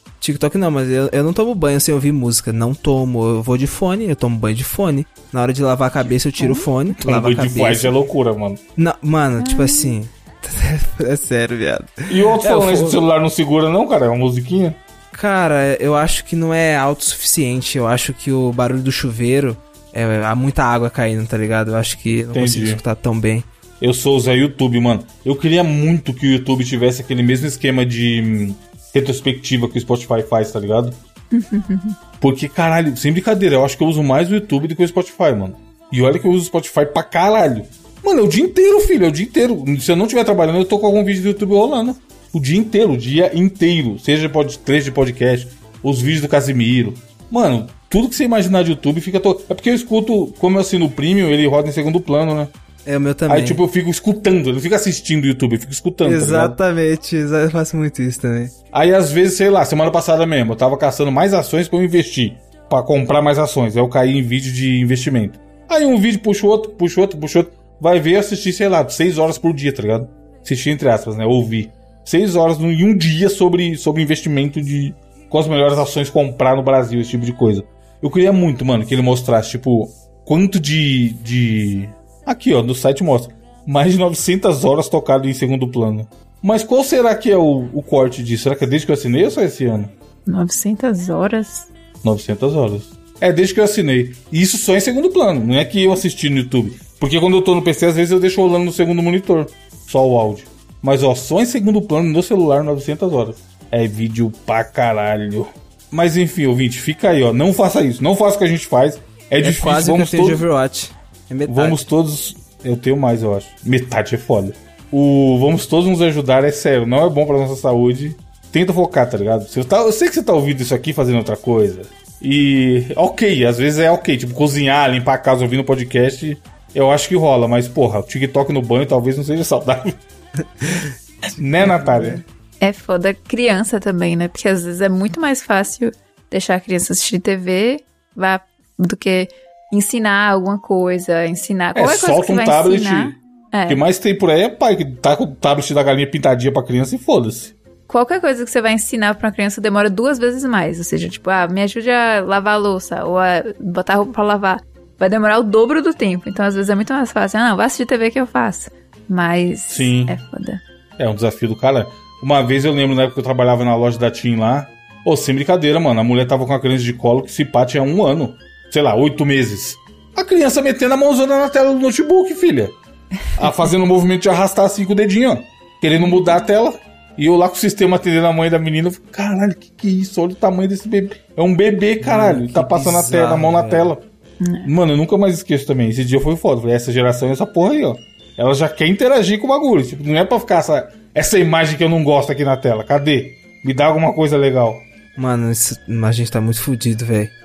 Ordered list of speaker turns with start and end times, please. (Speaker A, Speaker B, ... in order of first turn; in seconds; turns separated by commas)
Speaker A: 0.2-7.9, Speaker B: 6.4-6.7, Speaker C: 7.0-8.6, Speaker A: 8.8-13.0, Speaker B: 9.4-9.9, Speaker C: 12.1-14.8, Speaker A: 15.1-23.5, Speaker C: 22.3-22.8, Speaker C: 23.8-31.0, Speaker B: 31.3-32.0, Speaker C: 32.2-52.5, Speaker A: 52.9-53.6, Speaker C: 53.3-56.6, Speaker A: 56.0-58.5, Speaker C: 58.7-89.9, Speaker B: 90.3-91.7, Speaker C: 92.0-110.5, Speaker A: 109.4-111.9, Speaker C: 111.5-130.0, Speaker A: 130.6-130.9, Speaker C: 131.3-132.2, Speaker A: 131.6-132.2, Speaker B: 132.6-143.8, Speaker C: 141.7-147.5, Speaker B: 147.9-160.6, Speaker C: 159.7-160.2, Speaker C: 161.0-172.7, Speaker C: 173.3-184.0, Speaker B: 176.0-176.4, Speaker A: 182.0-183.9, Speaker B: 184.4-184.7, Speaker C: 184.6-194.8, Speaker A: 195.2-197.3